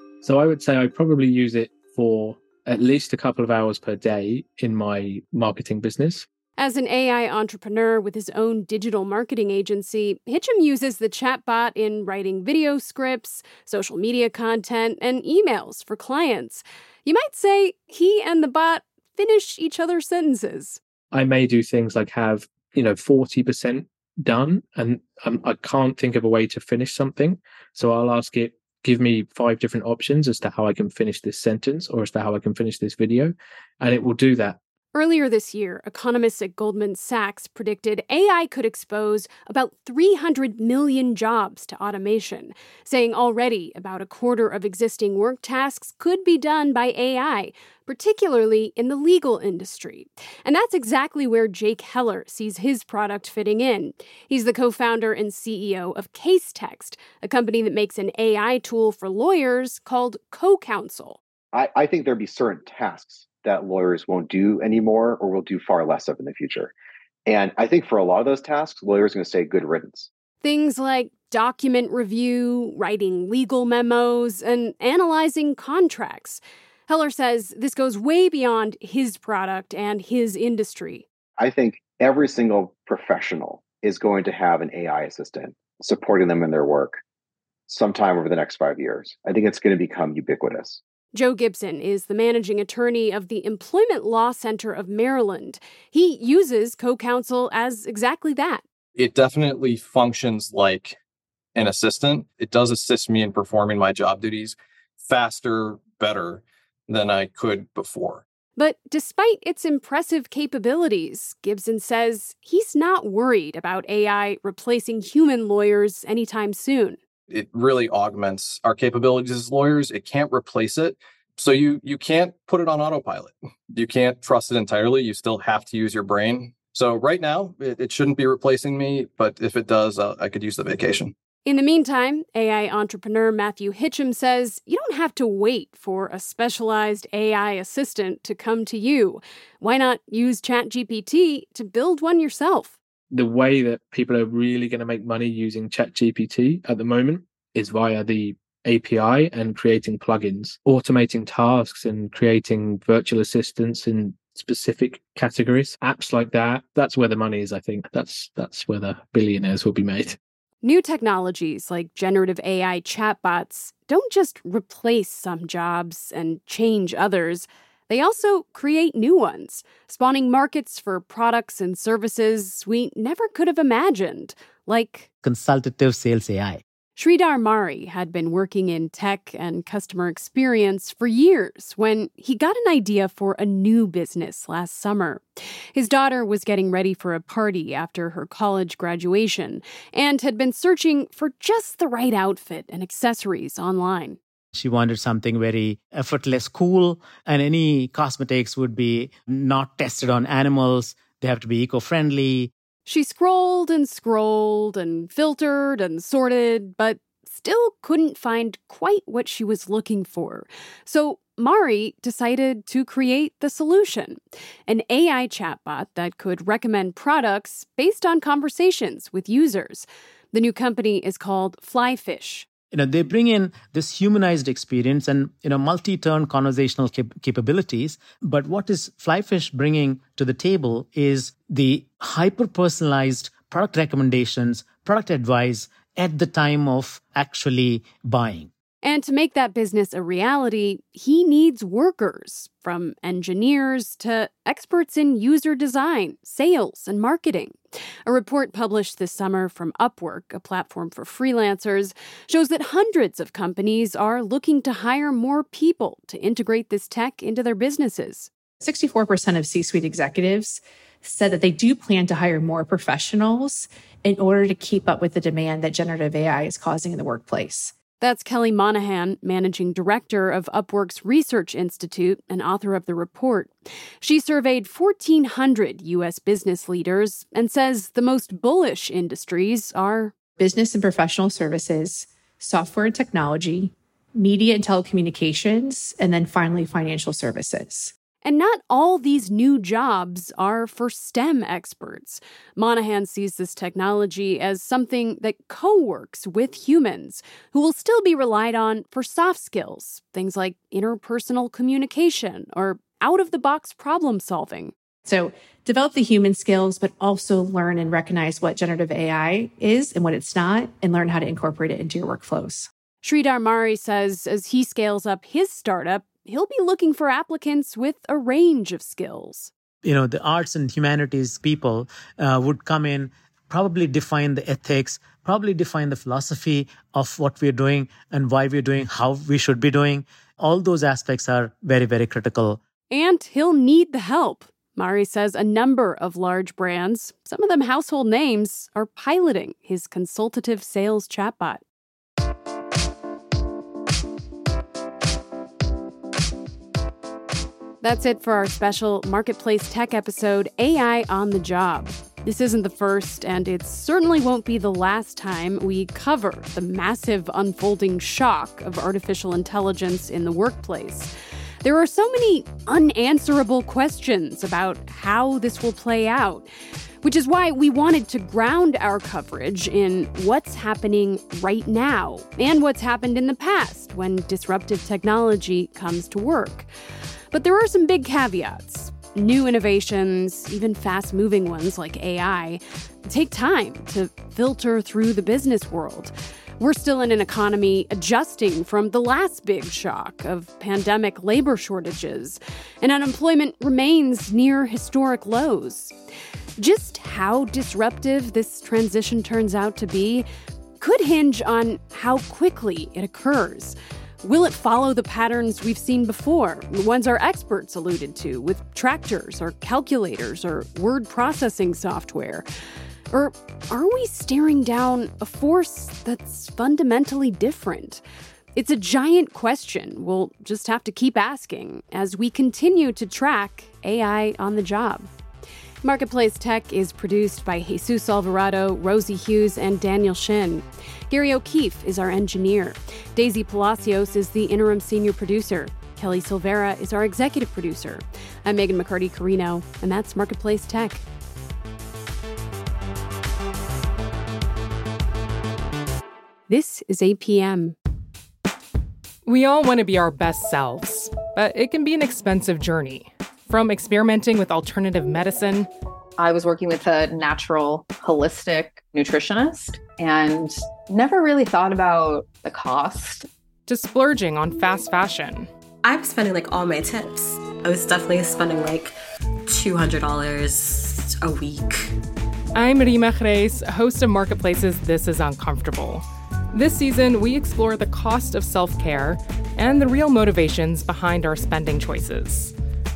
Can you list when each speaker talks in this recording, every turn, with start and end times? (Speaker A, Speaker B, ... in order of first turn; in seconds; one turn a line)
Speaker A: 0.5-6.1
Speaker B: 6.6-20.8
Speaker A: 21.2-33.3
Speaker A: 33.8-34.5
Speaker B: 34.9-61.2
Speaker C: 61.5-66.7
Speaker C: 67.3-70.1
Speaker B: 70.4-81.1
Speaker C: 81.4-87.0
Speaker C: 87.7-90.8
Speaker B: 91.1-98.6
Speaker D: 99.0-101.0
Speaker D: 101.5-104.6
Speaker D: 105.1-108.2
Speaker B: 108.6-117.0
Speaker D: 117.3-131.1
Speaker B: 131.5-142.8
Speaker A: 143.2-160.1
Speaker B: 160.6-175.1
Speaker E: 175.2-176.6
Speaker B: 177.0-194.2
Speaker E: 194.5-202.5
Speaker B: 202.9-222.5
Speaker E: 222.7-238.5
Speaker B: 238.8-258.3
Speaker F: 258.6-267.7
Speaker B: 268.0-280.1
Speaker F: 280.4-287.9
Speaker B: 288.2-304.7
Speaker F: 305.1-312.7
Speaker B: 313.0-319.5
Speaker E: 319.8-332.6
Speaker B: 332.9-341.6
Speaker B: 347.8-361.1
Speaker B: 361.6-366.5
Speaker B: 367.0-376.7
Speaker B: 377.3-395.9
Speaker B: 396.6-400.3
Speaker B: 400.8-412.5
Speaker B: 413.1-418.0
Speaker B: 418.6-425.1
Speaker B: 425.8-441.0
Speaker B: 446.5-447.8
Speaker G: 449.3-455.7
Speaker H: 456.2-463.3
Speaker G: 463.7-465.5
Speaker I: 465.8-468.9
Speaker I: 469.5-471.9
Speaker G: 472.6-482.5